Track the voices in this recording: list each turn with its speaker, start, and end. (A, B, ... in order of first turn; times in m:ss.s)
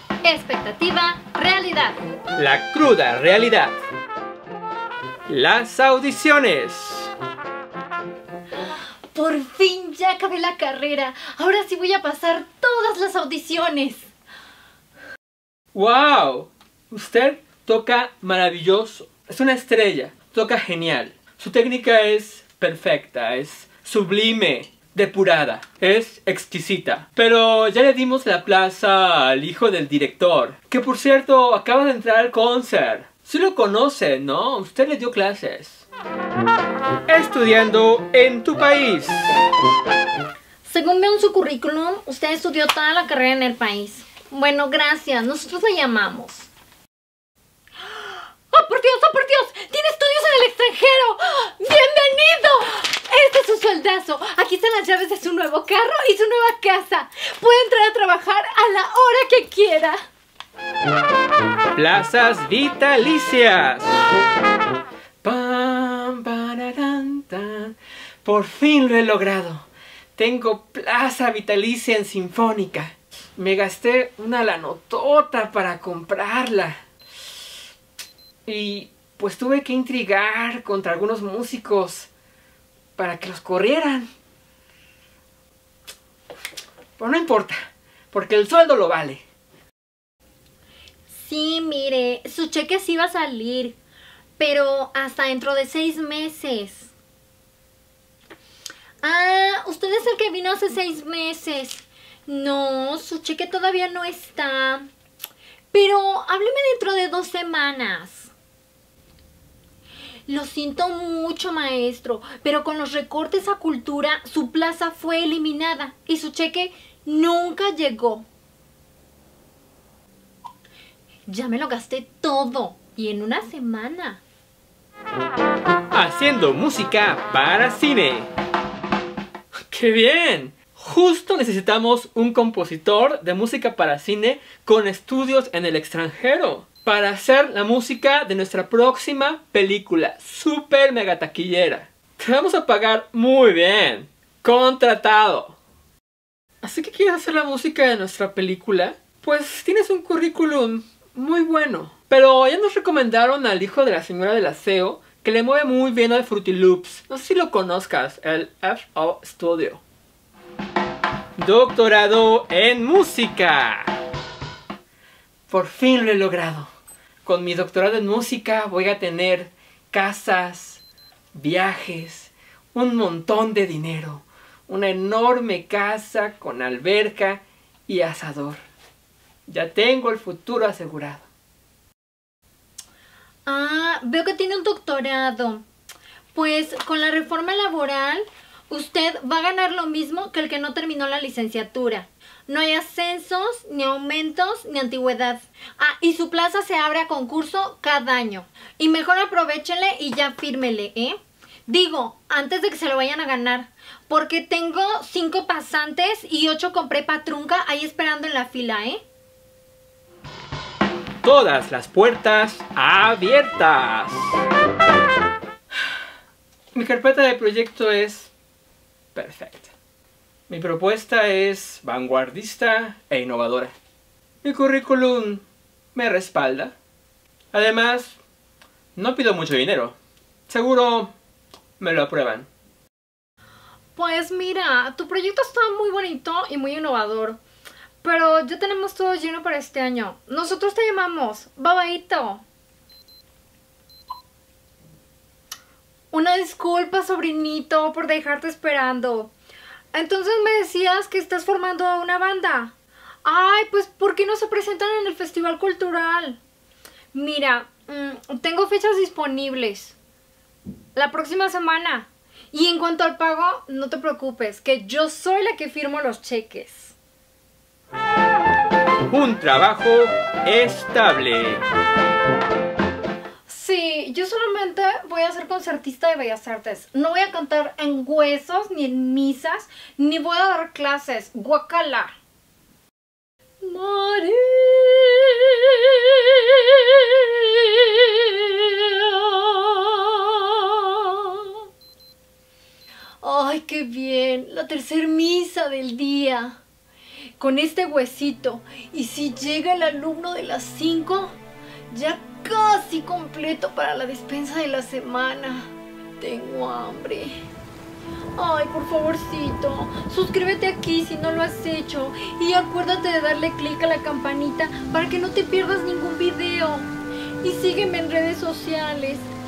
0:00.2-0:02.0 A
0:02.3-0:03.7 B
0:05.3-0:07.1 B
0:09.1-0:14.1 A
0:15.7-0:35.9 B
0:37.1-0:39.3 B
0:40.6-0:46.5 A
0:47.8-1:00.0 A
1:01.7-1:03.9 B
1:05.2-1:16.8 B
1:18.4-1:22.1 B
1:23.0-1:24.1 B
1:27.0-1:29.2 B
1:31.1-1:33.8 A
1:34.4-1:36.9 A
1:39.0-1:44.9 A
1:45.7-1:48.3 A
1:50.3-1:58.3 A
2:01.3-2:04.2 A
2:05.9-2:08.3 B
2:09.7-2:25.6 B
2:26.6-2:39.8 B
2:41.4-2:43.9 B
2:45.5-2:46.7 B
2:47.2-2:50.8 B
2:51.3-2:58.6 B
2:59.5-3:01.3 B
3:03.4-3:05.6 A
3:06.3-3:29.0 A
3:31.2-3:34.2 B
3:36.7-3:38.3 B
3:39.1-3:39.7 B
3:40.5-3:43.7 B
3:44.4-3:45.4 B
3:45.9-3:46.8 B
3:47.5-3:48.2 B
3:48.9-3:50.0 B
3:50.5-3:51.1 B
3:51.8-3:52.5 B
3:54.0-3:57.4 A
3:58.0-4:02.4 A
4:06.1-4:09.3 A
4:09.9-4:12.7 A
4:13.2-4:16.4 A
4:17.1-4:20.0 A
4:20.9-4:27.0 A
4:29.1-4:31.6 B
4:33.5-4:42.1 A
4:43.6-4:51.6 A
4:53.2-4:56.6 A
4:57.4-5:01.4 A
5:01.9-5:07.4 A
5:08.4-5:16.9 A
5:17.4-5:19.3 A